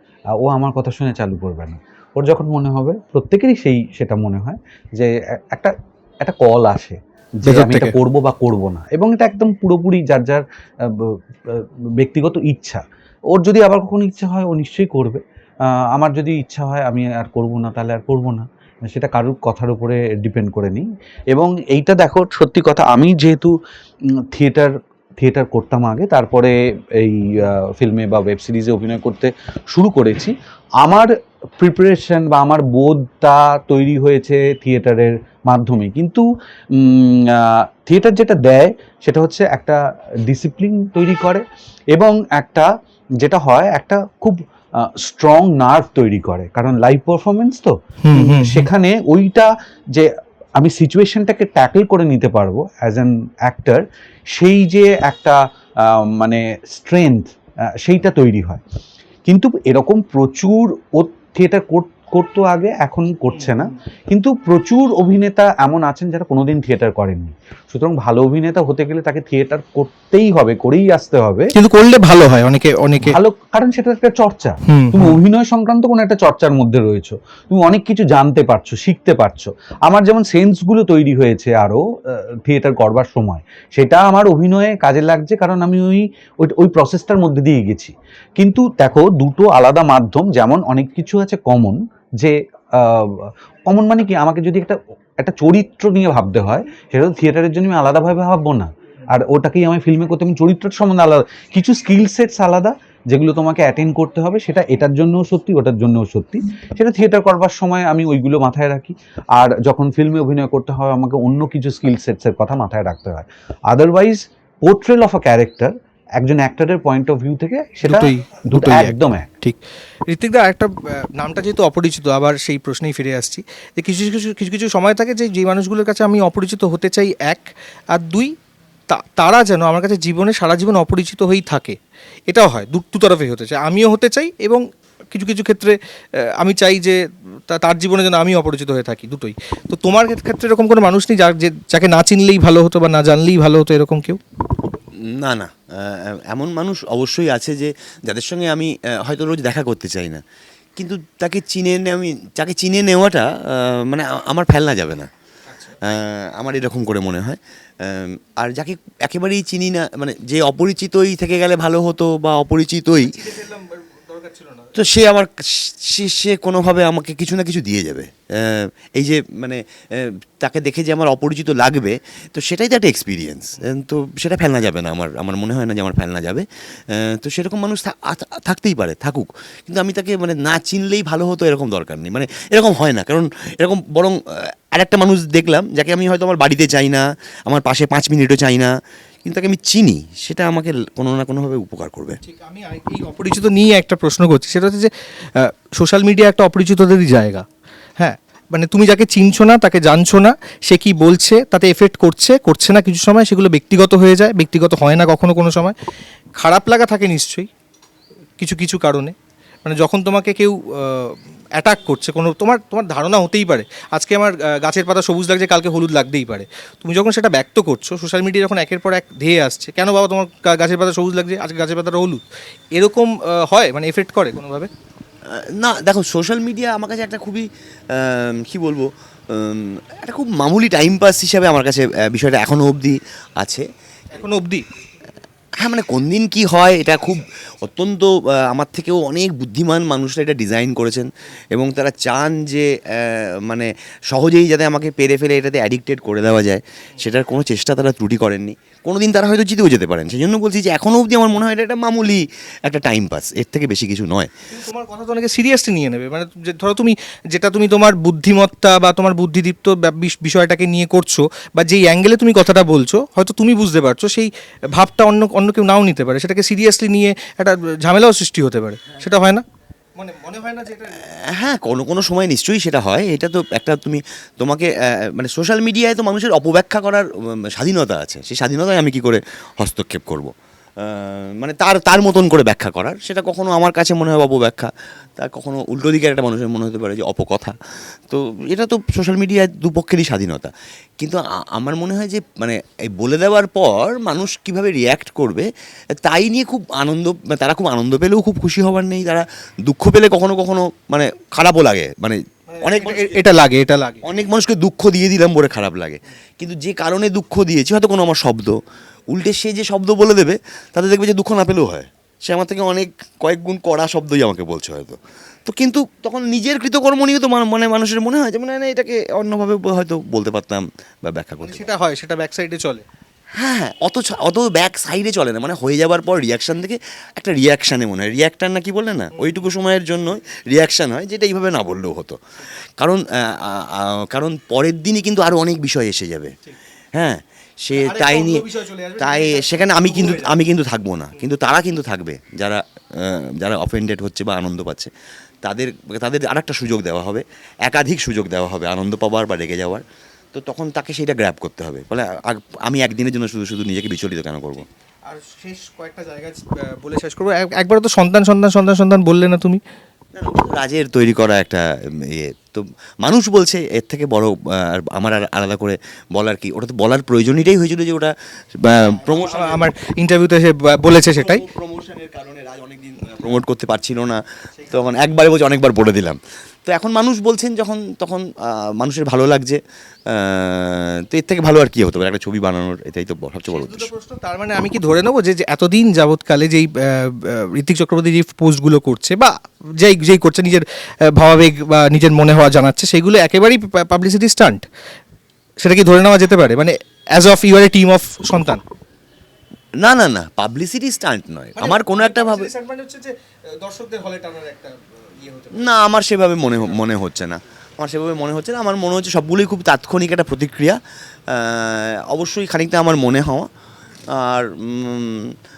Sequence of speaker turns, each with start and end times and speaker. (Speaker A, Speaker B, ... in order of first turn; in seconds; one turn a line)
Speaker A: 0.3-23.5
Speaker B: 7.5-7.9
Speaker A: 24.3-24.7
Speaker A: 25.2-36.2
Speaker A: 36.8-42.7
Speaker A: 43.2-53.8
Speaker B: 48.0-48.7
Speaker A: 54.3-57.3
Speaker A: 57.8-58.6
Speaker A: 59.3-71.5
Speaker B: 71.5-73.2
Speaker A: 73.0-81.8
Speaker B: 74.7-75.2
Speaker A: 82.5-119.3
Speaker B: 117.8-128.3
Speaker B: 128.9-131.8
Speaker B: 132.3-135.8
Speaker B: 136.4-144.2
Speaker C: 145.2-150.2
Speaker C: 150.8-155.1
Speaker B: 155.5-155.9
Speaker C: 155.9-163.2
Speaker B: 163.1-164.8
Speaker C: 164.8-184.2
Speaker C: 184.7-188.7
Speaker C: 189.2-192.2
Speaker B: 192.2-197.5
Speaker B: 198.0-205.8
Speaker B: 206.4-207.5
Speaker B: 208.4-209.1
Speaker B: 209.7-222.2
Speaker B: 222.7-224.7
Speaker C: 225.3-233.7
Speaker B: 234.1-234.7
Speaker C: 235.6-254.3
Speaker B: 254.5-269.4
Speaker B: 270.0-271.0
Speaker C: 271.1-287.5
Speaker C: 288.1-295.5
Speaker C: 296.0-303.2
Speaker B: 302.5-304.0
Speaker C: 304.0-308.6
Speaker C: 309.1-321.7
Speaker B: 321.4-322.8
Speaker C: 323.4-332.2
Speaker C: 332.8-336.3
Speaker C: 337.0-338.4
Speaker B: 337.8-340.4
Speaker C: 339.0-344.9
Speaker C: 345.4-354.7
Speaker B: 355.1-359.6
Speaker C: 360.1-368.1
Speaker C: 368.6-369.7
Speaker B: 368.9-371.4
Speaker C: 371.1-383.9
Speaker B: 374.6-374.9
Speaker B: 383.5-394.6
Speaker B: 395.6-398.6
Speaker C: 399.8-402.5
Speaker B: 401.6-405.7
Speaker C: 405.6-410.8
Speaker C: 411.3-413.5
Speaker C: 414.1-415.3